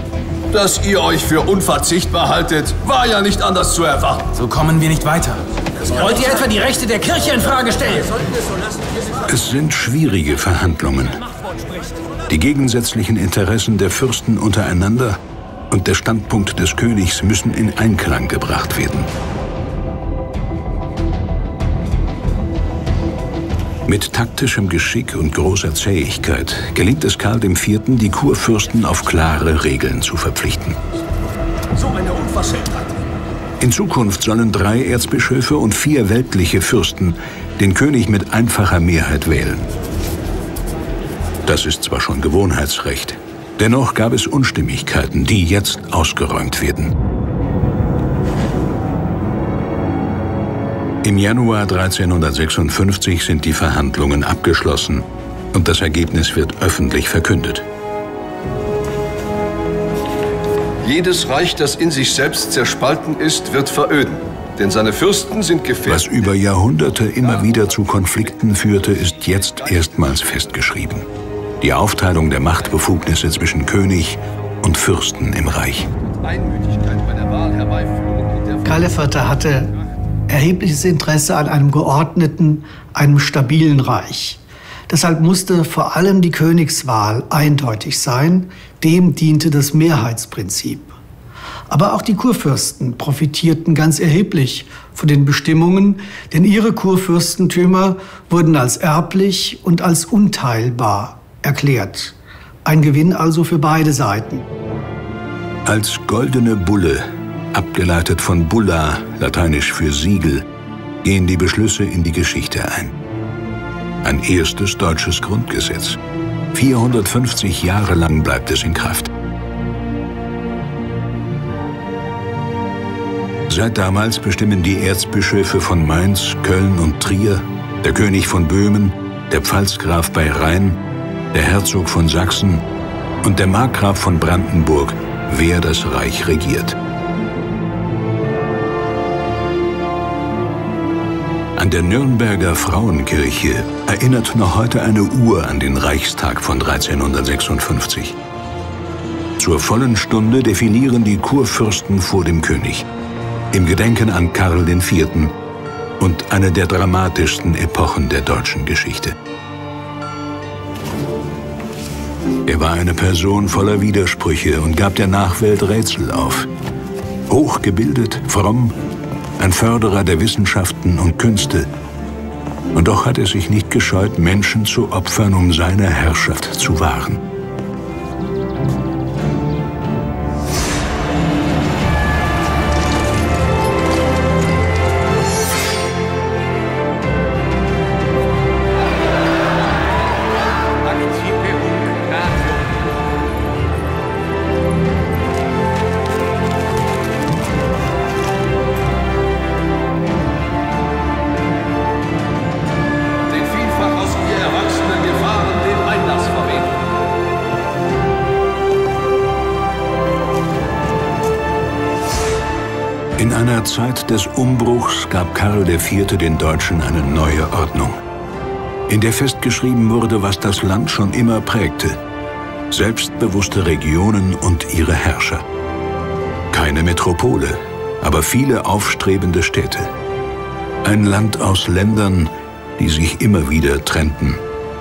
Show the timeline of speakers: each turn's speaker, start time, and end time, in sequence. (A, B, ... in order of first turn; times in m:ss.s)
0:00.5-0:04.3 A
0:04.4-0:08.3 B
0:09.3-0:11.2 C
0:12.3-0:19.1 C
0:23.9-0:30.8 C
0:31.8-0:32.9 A
0:33.6-0:39.7 C
0:41.4-0:47.0 C
0:51.0-0:57.6 C
1:00.8-1:06.3 A
1:05.9-1:11.1 C
1:07.2-1:08.4 A
1:09.5-1:10.2 A
1:11.6-1:15.9 C
1:16.1-1:19.0 A
1:18.6-1:19.7 D
1:20.3-1:31.0 D
1:31.7-1:44.5 D
1:45.6-1:50.4 C
1:51.0-1:53.0 C
1:54.0-1:56.0 C
1:56.5-1:59.1 C
2:03.5-2:10.8 C
2:11.3-2:12.6 C
2:13.2-2:16.8 C
2:21.6-2:28.2 C
2:29.4-2:32.9 C
2:33.5-2:35.3 C
2:36.0-2:39.2 C
2:42.5-2:46.5 C
2:47.3-2:48.8 C
2:49.4-2:51.7 C
2:52.7-2:57.2 C
3:23.3-3:26.7 A
3:33.2-3:38.0 C
3:38.9-3:42.0 C
3:42.7-3:45.4 C
3:46.5-3:49.9 C
3:50.8-3:54.4 C